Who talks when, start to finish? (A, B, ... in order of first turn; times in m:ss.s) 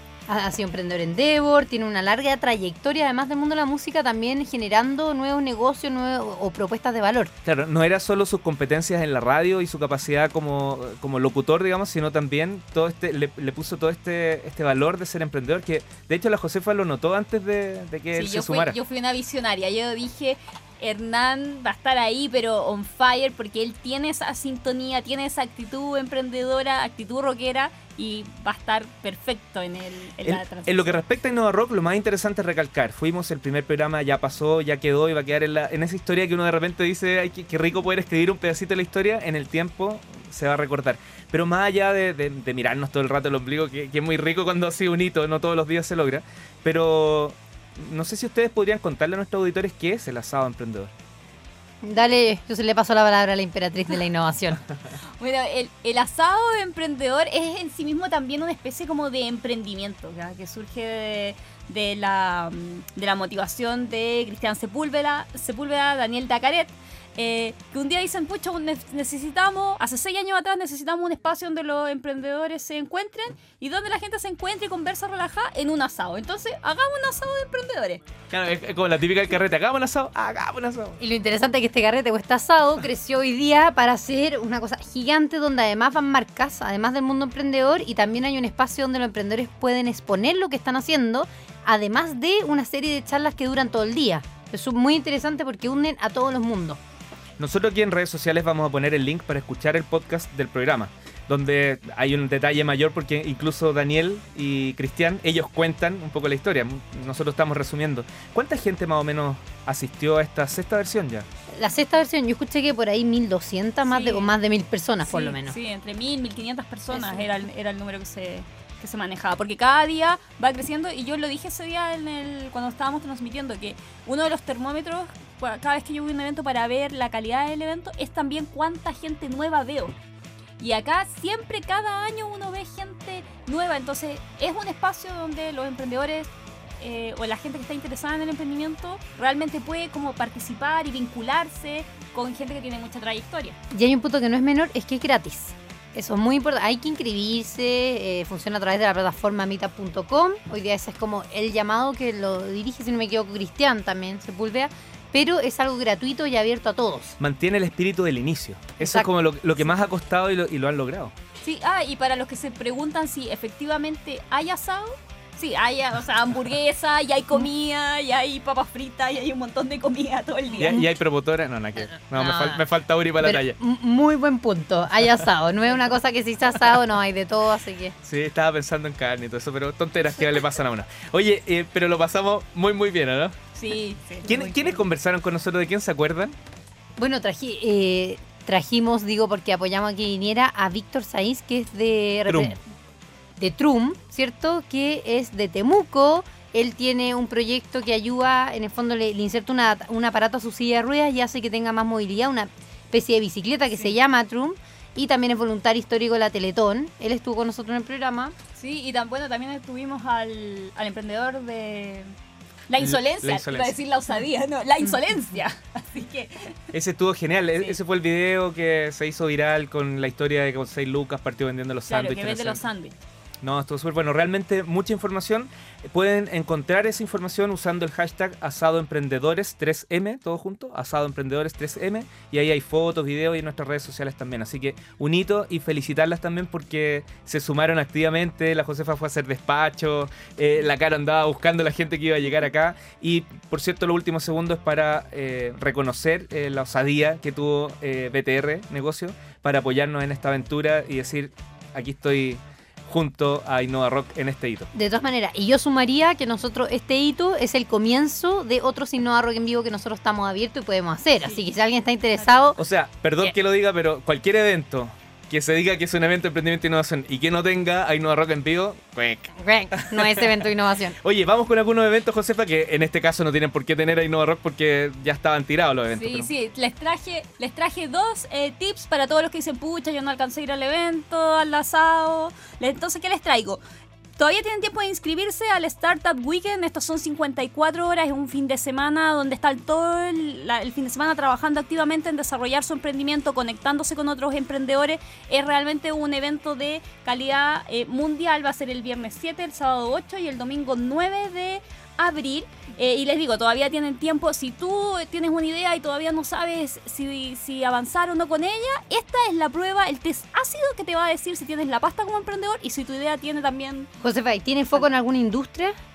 0:00.3-0:07.3 A
0:07.4-0:18.8 B
0:18.1-0:31.0 C
0:30.2-0:50.9 B
0:51.8-0:54.6 A
0:55.2-1:18.0 C
1:18.3-1:21.0 B
1:21.0-1:36.8 A
1:37.4-1:51.3 B
1:51.5-1:55.6 A
1:53.9-1:54.3 C
1:55.1-2:10.0 C
1:56.9-1:57.3 A
2:10.6-2:23.6 C
2:23.7-2:37.2 A
2:37.2-2:41.1 B
2:38.8-2:39.1 A
2:41.4-2:50.8 C
2:50.6-2:53.6 B
2:52.1-2:52.6 A
2:53.2-2:58.0 A
2:58.0-3:03.4 B
3:03.6-3:04.7 C
3:04.2-3:06.4 B
3:07.0-3:12.6 A
3:12.3-3:12.6 B
3:13.4-3:28.3 A
3:28.6-3:32.1 C
3:32.7-3:36.6 C
3:32.8-3:33.8 B
3:36.7-3:42.6 B
3:41.9-3:43.0 C
3:43.4-4:14.7 B
4:14.7-4:22.6 A
4:22.6-4:30.4 B
4:29.4-4:31.0 A
4:31.0-4:36.3 B
4:35.9-4:43.6 C
4:44.2-5:13.9 C
5:14.0-5:15.8 A